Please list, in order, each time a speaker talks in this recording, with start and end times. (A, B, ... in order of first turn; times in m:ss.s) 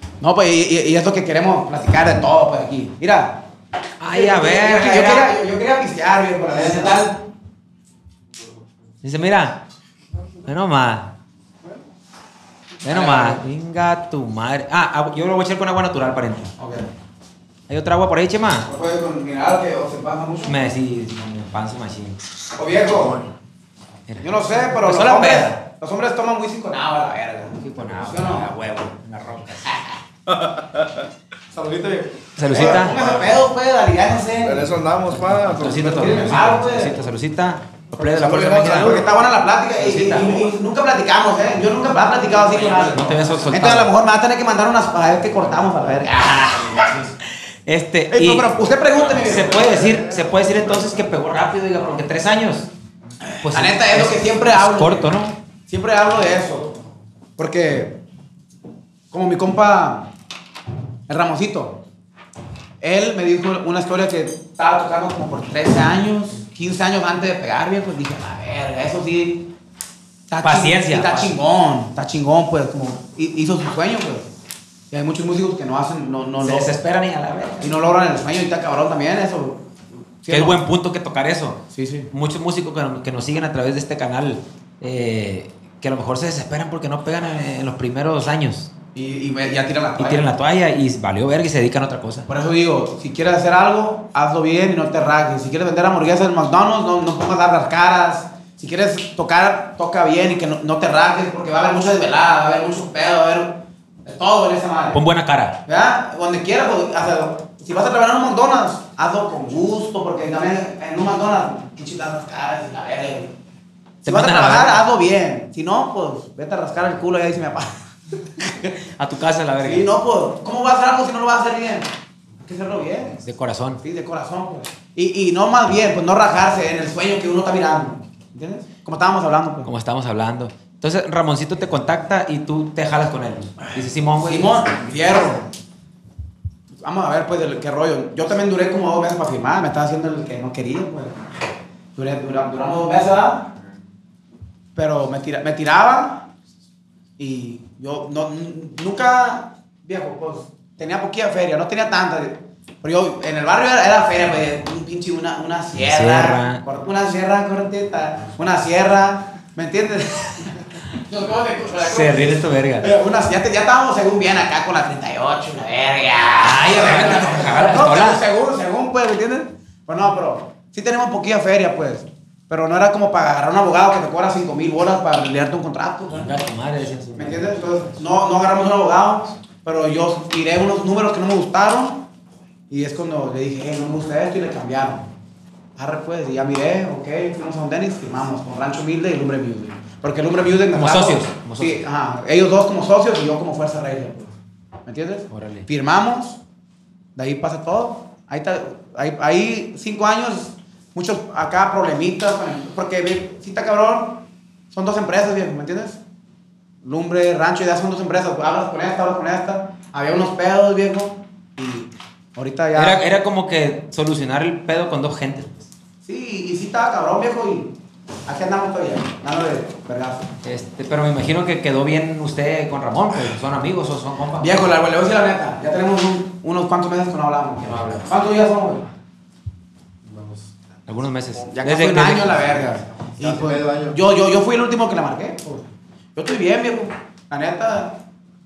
0:00.2-0:03.4 A
0:04.0-0:05.3 B
0:04.1-0:07.2 A
0:06.5-0:07.0 B
0:09.0-0:09.6 B
0:10.4-0:11.1 B
0:12.8-0:13.4 A
0:12.8-0:16.5 B
0:16.6-0:16.9 A
0:17.7-0:18.7 B
0:18.7-0:20.6 A
0:20.4-0:22.2 B
0:22.6-0:23.2 A
0:24.1-0:25.6 B
0:24.2-0:28.5 A
0:27.6-0:29.7 B
0:30.5-0:30.9 C
0:31.5-0:33.3 C
0:31.6-0:34.8 A
0:32.4-0:32.9 B
0:34.4-0:36.5 C
0:35.3-0:39.1 B
0:35.9-0:37.0 A
0:37.9-0:47.1 A
0:39.8-0:40.4 B
0:42.4-0:43.9 B
0:46.2-0:48.5 B
0:48.1-0:50.0 A
0:49.1-0:52.7 B
0:53.2-0:55.1 A
0:53.4-0:55.3 B
0:55.7-0:56.7 A
0:57.4-0:58.0 A
0:59.1-1:00.1 A
1:01.1-1:01.8 A
1:02.8-1:09.5 A
1:10.3-1:14.3 A
1:10.4-1:11.3 B
1:14.9-1:16.7 A
1:16.4-1:17.7 B
1:17.6-1:19.7 A
1:20.2-1:20.6 A
1:20.3-1:21.6 B
1:21.7-1:22.1 A
1:22.1-1:28.7 B
1:29.0-1:30.3 A
1:30.0-1:32.3 B
1:32.3-1:45.0 A
1:44.9-1:45.6 B
1:45.7-1:53.3 A
1:54.0-1:54.8 B
1:54.0-1:57.7 A
1:58.6-1:59.9 B
1:59.6-2:01.9 A
2:02.4-2:03.2 A
2:03.2-2:03.8 B
2:03.8-2:09.7 A
2:09.6-2:14.7 B
2:13.6-2:15.4 A
2:16.8-2:21.2 A
2:22.0-2:23.5 A
2:24.8-2:26.3 A
2:27.2-2:56.3 A
2:35.8-2:36.6 B
2:41.8-2:42.9 B
2:46.4-2:48.2 B
2:56.1-2:57.6 B
2:57.2-3:02.0 A
3:02.7-3:05.0 A
3:05.8-3:16.4 A
3:10.7-3:11.8 B
3:15.3-3:15.7 B
3:17.2-3:26.0 A
3:26.8-3:33.0 A
3:32.8-3:35.7 B
3:36.0-3:37.7 A
3:38.3-3:40.3 A
3:40.4-3:44.7 B
3:44.4-3:48.9 A
3:47.6-3:48.1 B
3:50.1-3:50.4 C
3:50.9-3:52.7 B
3:51.5-3:58.0 A
3:52.9-3:54.0 C